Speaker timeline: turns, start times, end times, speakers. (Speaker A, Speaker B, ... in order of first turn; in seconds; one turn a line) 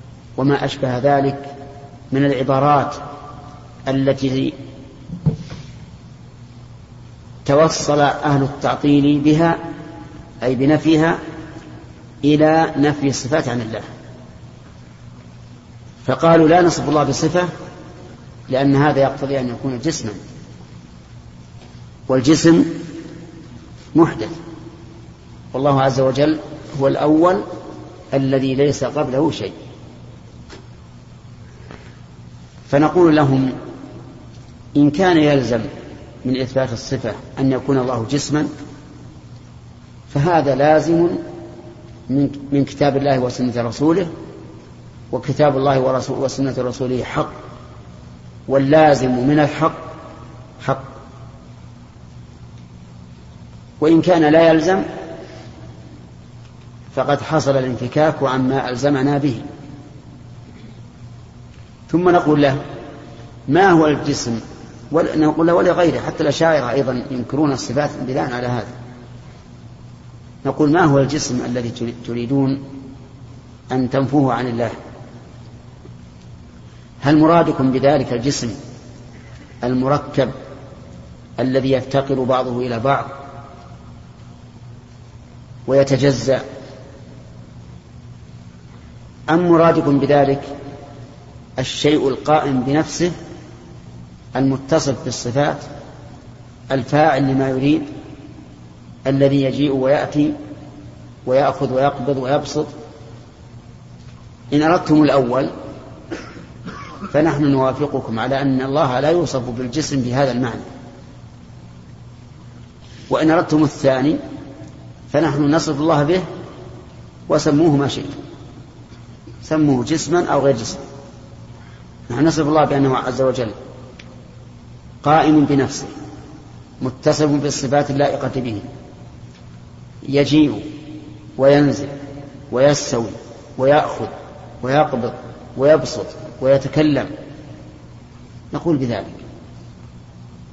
Speaker A: 0.4-1.5
Speaker A: 2.1-3.0
Speaker A: 3.9-4.5
Speaker A: 7.4-9.7
Speaker A: 10.4-11.2
Speaker A: 12.2-13.9
Speaker A: 16.1-17.5
Speaker A: 18.5-20.2
Speaker A: 22.1-22.9
Speaker A: 23.9-24.4
Speaker A: 25.5-27.4
Speaker A: 28.1-29.5
Speaker A: 32.7-33.5
Speaker A: 34.7-35.7
Speaker A: 36.2-38.5
Speaker A: 40.1-41.2
Speaker A: 42.1-44.1
Speaker A: 45.1-47.3
Speaker A: 48.5-49.8
Speaker A: 50.6-50.9
Speaker A: 53.8-54.9
Speaker A: 56.9-59.5
Speaker A: 61.9-62.6
Speaker A: 63.5-68.7
Speaker A: 70.4-72.6
Speaker A: 73.7-74.8
Speaker A: 77.0-78.6
Speaker A: 79.6-80.3
Speaker A: 81.4-83.1
Speaker A: 85.7-86.4
Speaker A: 89.3-90.5
Speaker A: 91.6-93.1
Speaker A: 94.3-95.7
Speaker A: 96.7-97.9
Speaker A: 99.0-100.3
Speaker A: 101.2-102.7
Speaker A: 104.5-105.5
Speaker A: 107.1-110.7
Speaker A: 113.1-114.2
Speaker A: 115.1-116.3
Speaker A: 117.3-118.1
Speaker A: 119.4-120.8
Speaker A: 122.1-123.5
Speaker A: 125.0-125.9
Speaker A: 126.8-128.7
Speaker A: 130.0-130.7
Speaker A: 131.4-131.9
Speaker A: 132.5-137.1
Speaker A: 138.5-139.2